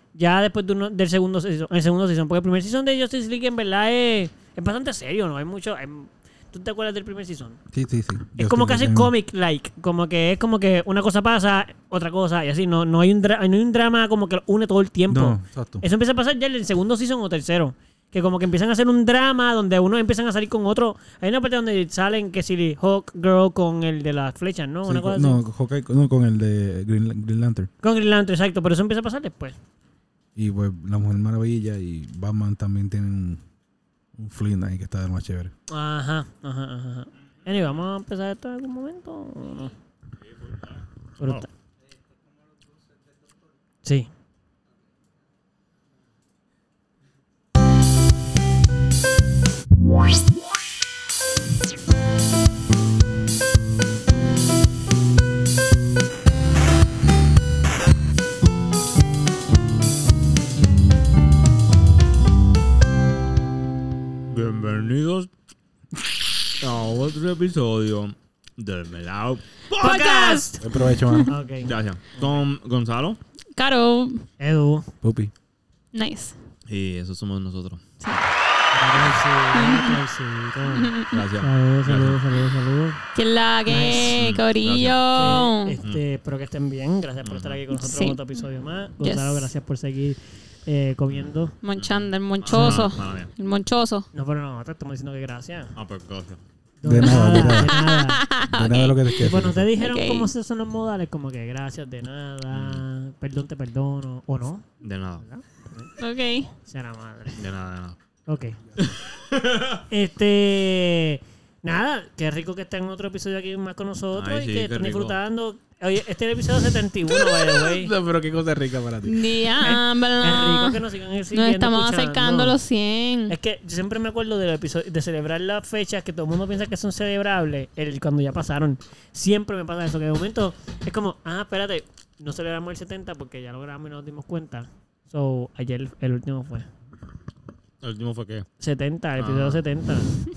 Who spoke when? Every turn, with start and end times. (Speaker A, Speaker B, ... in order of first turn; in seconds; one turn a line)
Speaker A: 0.1-7.6
Speaker B: 7.7-9.1
Speaker A: 8.4-25.4
Speaker B: 15.1-15.8
Speaker B: 24.9-27.7
Speaker A: 27.8-29.6
Speaker B: 30.4-33.4
Speaker B: 34.2-35.5
Speaker A: 35.7-39.7
Speaker C: 40.5-41.5
Speaker A: 41.2-41.5
Speaker A: 43.8-44.1
Speaker C: 64.3-65.3
Speaker C: 66.6-70.0
Speaker D: 69.8-71.3
Speaker A: 69.8-70.6
Speaker B: 70.6-71.3
Speaker A: 71.3-72.3
Speaker C: 71.6-73.2
Speaker D: 73.5-74.2
Speaker A: 74.4-74.9
Speaker B: 75.0-75.3
Speaker D: 75.9-76.4
Speaker C: 76.7-77.8
Speaker D: 78.0-78.3
Speaker A: 78.7-83.0
Speaker D: 79.5-80.0
Speaker D: 80.7-81.2
Speaker C: 81.1-82.2
Speaker D: 83.2-85.8
Speaker A: 83.7-84.3
Speaker C: 84.1-85.1
Speaker A: 85.1-91.5
Speaker C: 87.2-87.6
Speaker D: 87.7-88.2
Speaker D: 89.0-89.5
Speaker D: 91.6-94.1
Speaker C: 91.7-93.3
Speaker A: 92.5-92.8
Speaker A: 94.1-95.7
Speaker C: 95.8-96.4
Speaker A: 96.8-98.2
Speaker B: 96.8-97.7
Speaker D: 97.5-99.0
Speaker B: 98.5-99.7
Speaker A: 99.2-104.7
Speaker D: 99.8-100.3
Speaker C: 102.5-102.8
Speaker C: 104.8-105.2
Speaker A: 105.2-105.9
Speaker D: 106.0-106.5
Speaker A: 106.7-107.4
Speaker C: 107.4-108.0
Speaker A: 108.3-108.6
Speaker C: 108.8-109.8
Speaker A: 109.9-117.9
Speaker C: 114.1-115.2
Speaker B: 117.6-119.4
Speaker D: 119.0-123.4
Speaker A: 119.6-122.6
Speaker A: 123.3-136.7
Speaker C: 137.8-138.5
Speaker A: 138.6-140.1
Speaker C: 139.2-139.6